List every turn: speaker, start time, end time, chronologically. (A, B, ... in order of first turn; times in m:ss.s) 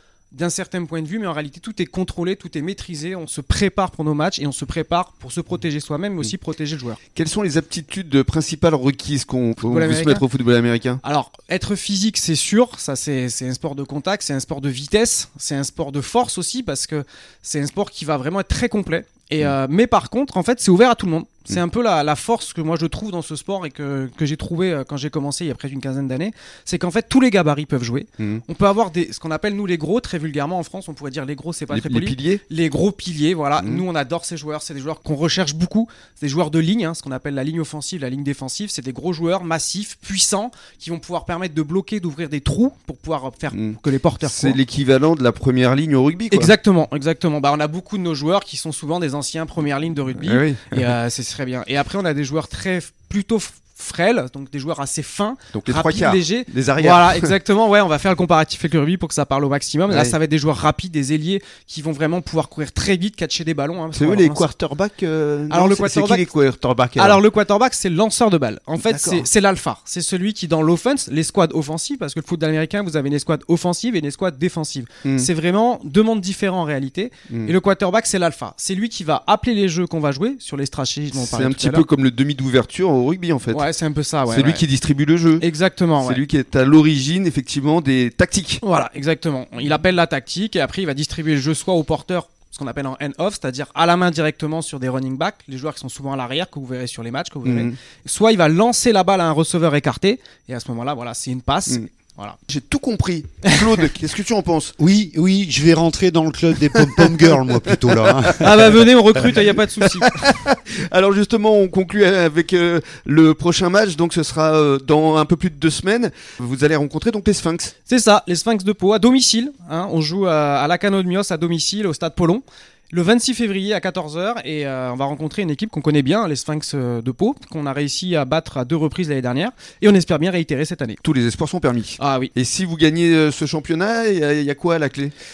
0:00.3-0:07.0 A
0:07.2-0:11.0 B
0:09.6-0:10.2 A
0:11.0-0:44.6 A
0:31.7-0:32.4 B
0:33.6-0:33.8 B
0:43.5-0:46.5 B
0:46.3-1:04.4 A
0:50.2-0:50.9 B
0:55.5-0:57.3 B
0:59.9-1:00.2 B
1:03.9-1:07.2 B
1:05.5-1:06.3 A
1:07.0-1:21.9 A
1:08.8-1:09.3 B
1:15.0-1:15.3 B
1:21.2-1:23.6 B
1:23.5-1:24.7 A
1:24.3-1:25.4 B
1:25.4-1:26.2 A
1:26.0-1:28.6 B
1:28.6-1:42.4 A
1:37.4-1:37.7 B
1:42.5-1:44.8 B
1:43.5-1:43.9 A
1:44.8-1:48.9 C
1:46.8-1:48.7 B
1:48.4-1:50.2 A
1:49.8-1:57.7 B
1:57.9-2:11.0 A
2:11.0-2:15.1 B
2:12.0-2:12.3 A